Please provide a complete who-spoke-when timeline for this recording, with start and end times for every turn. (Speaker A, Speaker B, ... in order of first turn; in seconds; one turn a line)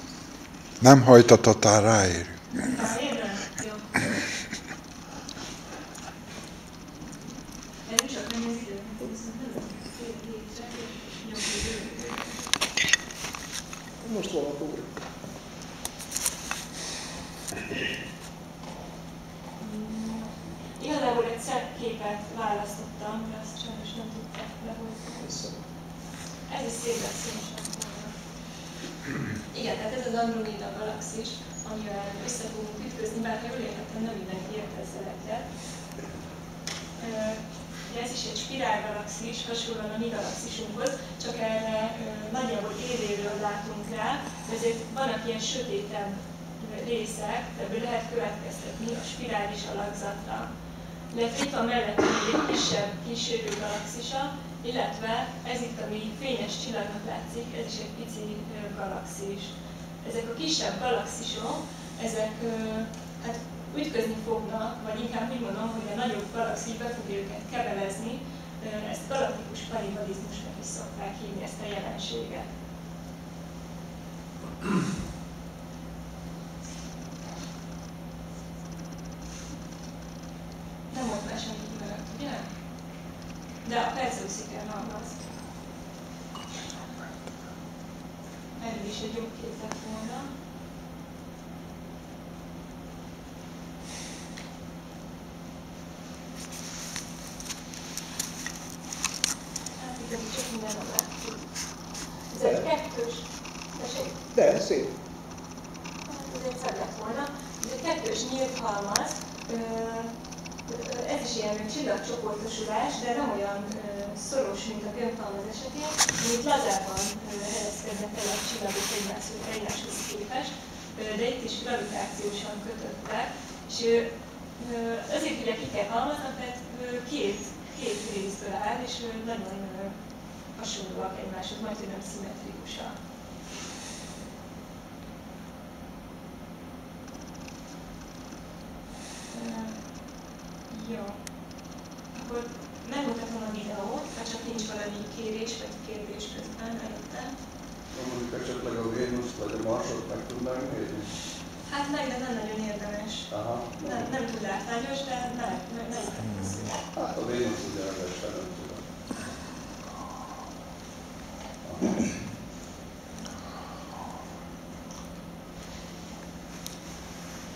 Speaker A: 0.8-2.9
Speaker B: 2.6-4.3
Speaker B: 7.8-12.4
Speaker C: 14.0-14.9
Speaker B: 19.6-25.2
Speaker C: 25.2-25.6
Speaker B: 26.4-28.1
Speaker B: 29.4-35.5
Speaker B: 37.0-50.5
Speaker B: 51.1-72.5
Speaker B: 80.9-82.5
Speaker B: 83.6-85.2
Speaker B: 88.5-90.3
Speaker B: 99.7-104.2
Speaker C: 104.3-104.9
Speaker B: 106.0-133.0
Speaker B: 139.3-141.2
Speaker B: 142.1-147.3
Speaker D: 147.9-151.1
Speaker B: 151.6-156.8
Speaker D: 153.3-154.1
Speaker D: 156.9-158.8
Speaker D: 161.6-162.2